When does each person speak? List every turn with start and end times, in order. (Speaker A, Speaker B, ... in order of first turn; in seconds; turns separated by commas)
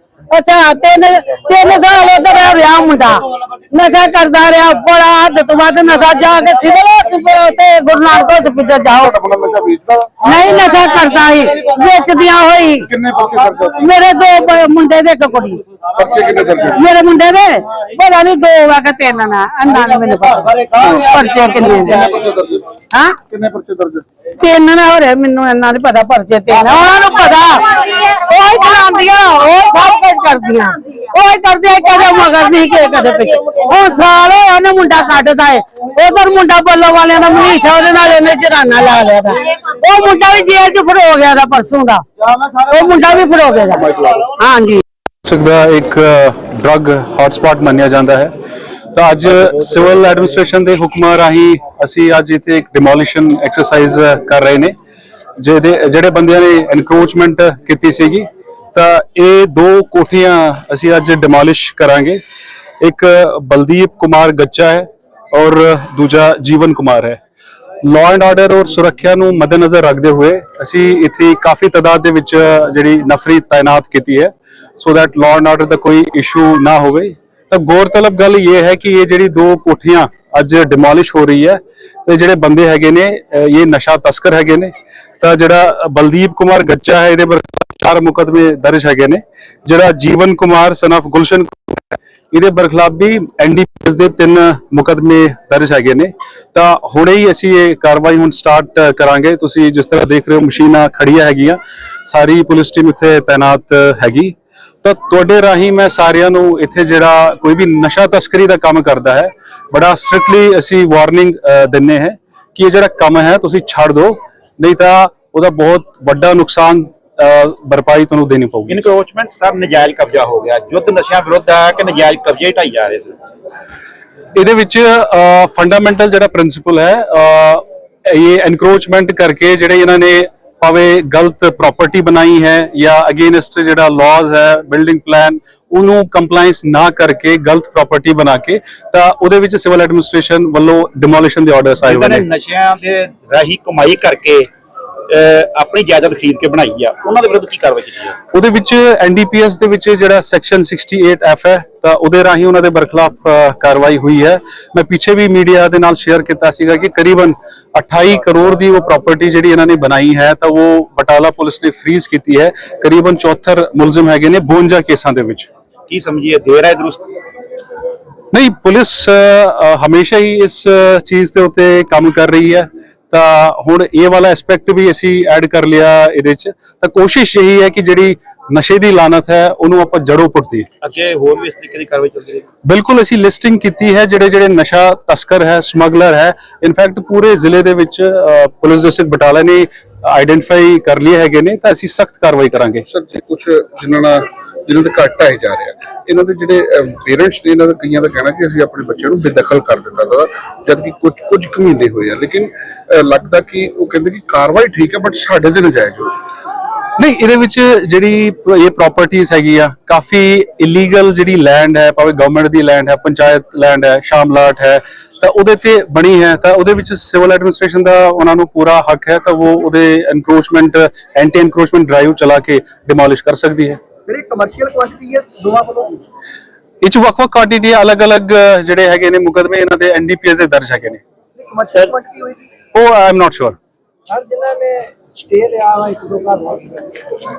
Speaker A: 0.3-9.1, Speaker B: 9.0-10.5, Speaker A: 10.2-12.9, Speaker B: 12.9-13.7, Speaker A: 13.7-15.6, Speaker B: 16.0-16.8, Speaker A: 16.7-22.1, Speaker B: 20.8-21.0, Speaker B: 21.6-22.6, Speaker A: 22.9-23.2, Speaker B: 23.3-24.0, Speaker A: 24.3-42.0, Speaker A: 42.5-44.8, Speaker C: 45.2-48.3, Speaker C: 48.9-54.7, Speaker C: 55.4-62.2, Speaker C: 62.8-67.2, Speaker C: 67.8-118.8, Speaker D: 118.7-123.2, Speaker C: 124.3-142.2, Speaker D: 141.8-144.5, Speaker D: 145.1-148.2, Speaker C: 148.3-165.5, Speaker D: 165.9-167.0, Speaker C: 168.3-180.7, Speaker D: 180.8-182.4, Speaker C: 182.6-192.8, Speaker B: 192.9-206.1, Speaker C: 207.0-223.8, Speaker E: 224.1-226.0, Speaker C: 226.8-231.0, Speaker E: 231.4-232.4, Speaker C: 232.7-233.6, Speaker E: 234.1-236.9